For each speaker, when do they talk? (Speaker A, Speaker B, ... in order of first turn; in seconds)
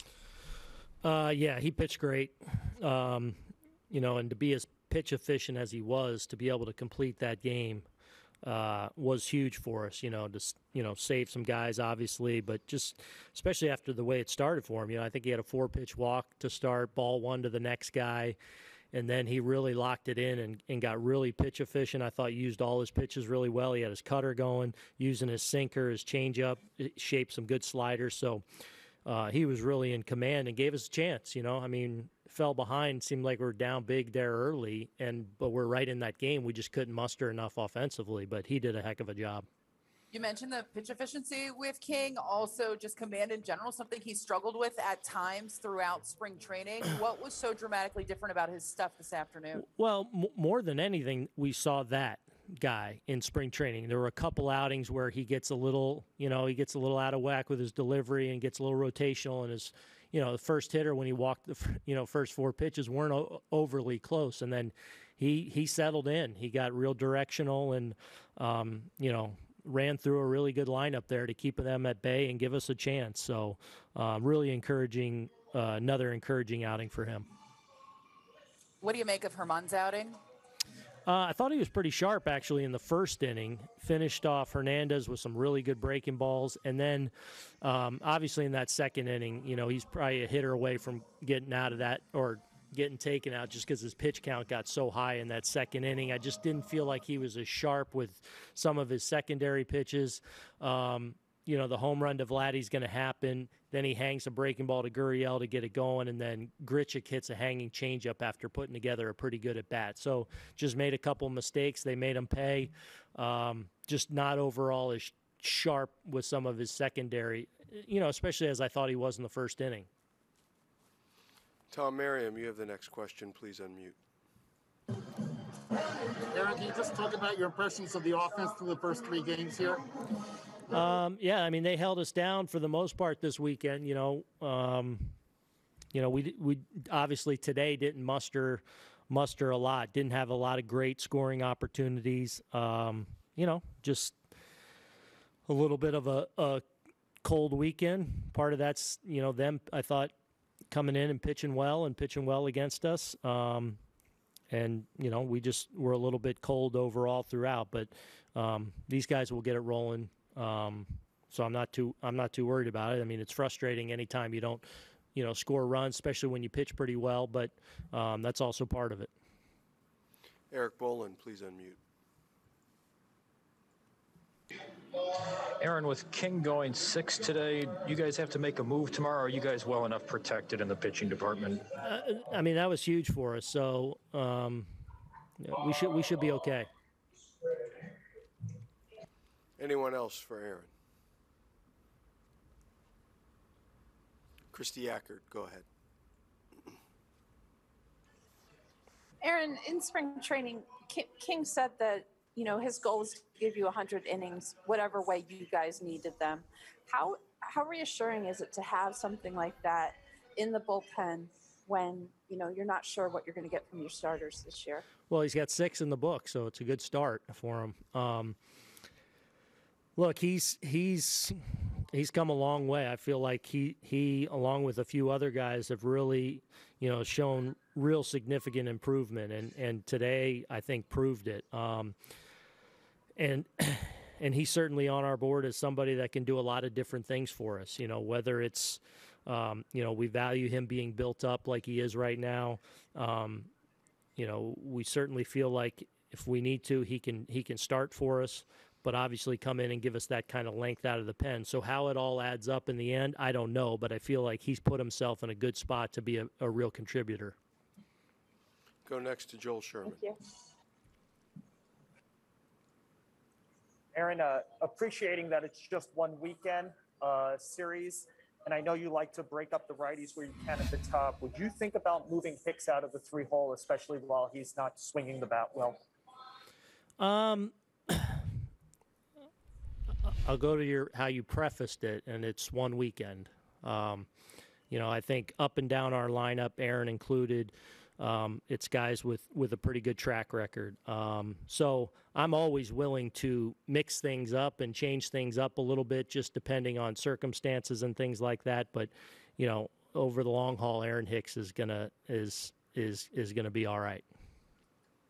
Speaker A: 1.0-7.9, 8.4-18.4, 18.9-28.4, 29.1-39.5, 49.6-77.2, 81.1-87.1, 87.6-119.9, 130.7-135.2, 135.9-144.1, 145.5-146.6, 147.2-150.1, 150.7-153.8, 154.5-164.6, 165.1-169.1, 181.8-184.7, 185.4-186.7, 215.1-218.3, 219.9-231.9, 233.2-243.5, 244.2-257.3, 277.0-278.3, 280.0-284.1, 284.7-304.0
Speaker B: 40.1-49.7, 78.8-80.2
Speaker C: 121.7-124.0, 170.5-171.8, 189.6-190.7, 194.5-195.7, 258.8-260.0
Speaker D: 126.3-129.8
Speaker E: 175.6-181.6
Speaker F: 199.2-214.8, 259.9-260.2
Speaker G: 263.9-275.8